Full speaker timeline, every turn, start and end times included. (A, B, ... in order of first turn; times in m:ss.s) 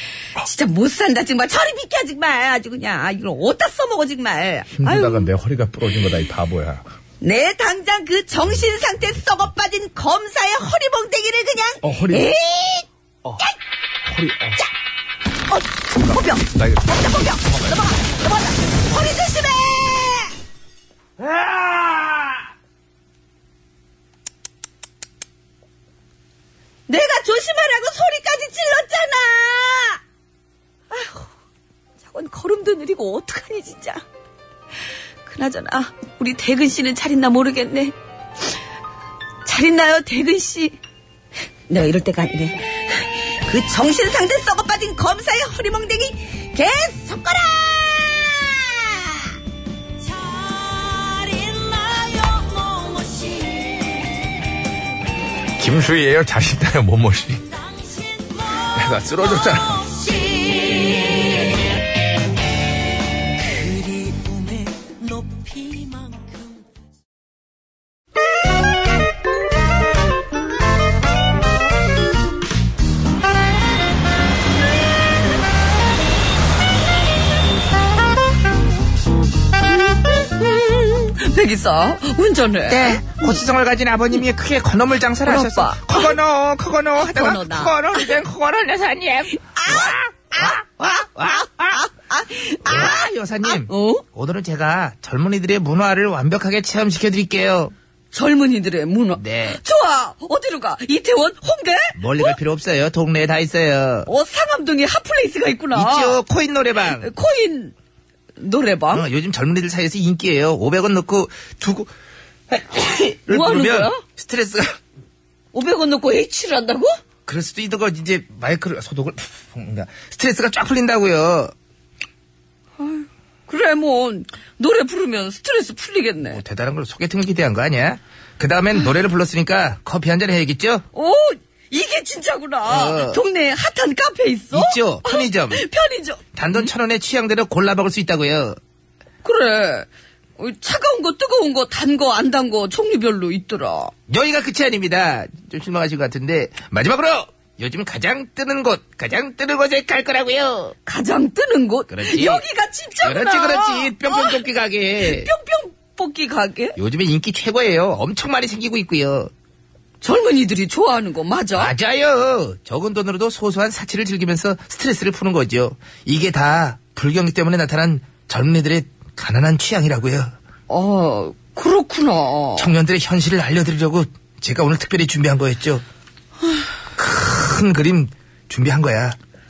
0:00.4-0:05.3 A
0:04.8-0:06.8 B
0:07.2-0:12.9 A
0:11.8-0:12.2 B
0:14.1-0:14.6 B
0:15.5-0:20.4 A
0:21.2-0:22.1 B
0:26.9-0:30.0 A
0:30.9-0:31.3 A
0:32.0-0:34.0 A
0:35.2-0:38.6 A
0:39.4-0:40.8 A
0:41.7-0:49.4 A
0:55.6-0:57.5 B
0:58.8-0:59.9 B
1:03.6-1:06.3 C
1:20.0-1:23.4 A
1:22.7-1:31.8 D
1:25.2-1:26.2 A
1:27.0-1:28.1 A
1:29.4-1:30.6 A
1:31.3-1:34.0 A
1:32.6-1:37.7 D
1:38.1-1:42.4 A
1:39.2-1:39.6 D
1:42.0-1:44.1 D
1:44.1-1:46.2 A
1:45.8-1:47.1 D
1:47.0-1:47.7 A
1:48.4-1:49.1 A
1:48.9-1:51.9 D
1:52.5-1:54.8 D
1:53.3-1:54.0 A
1:55.5-1:56.9 A
1:57.3-2:01.5 D
2:02.8-2:06.4 A
2:06.3-2:10.8 D
2:10.9-2:16.2 A
2:12.7-2:13.2 D
2:14.5-2:15.6 D
2:16.4-2:18.6 D
2:19.2-2:19.9 A
2:20.4-2:23.9 A
2:24.1-2:30.8 D
2:30.8-2:34.4 A
2:31.9-2:32.4 D
2:33.0-2:35.3 D
2:35.0-2:36.8 A
2:36.8-2:39.3 D
2:40.0-2:41.7 A
2:41.6-2:50.3 D
2:50.7-2:52.7 A
2:52.6-2:55.8 D
2:57.0-2:59.2 D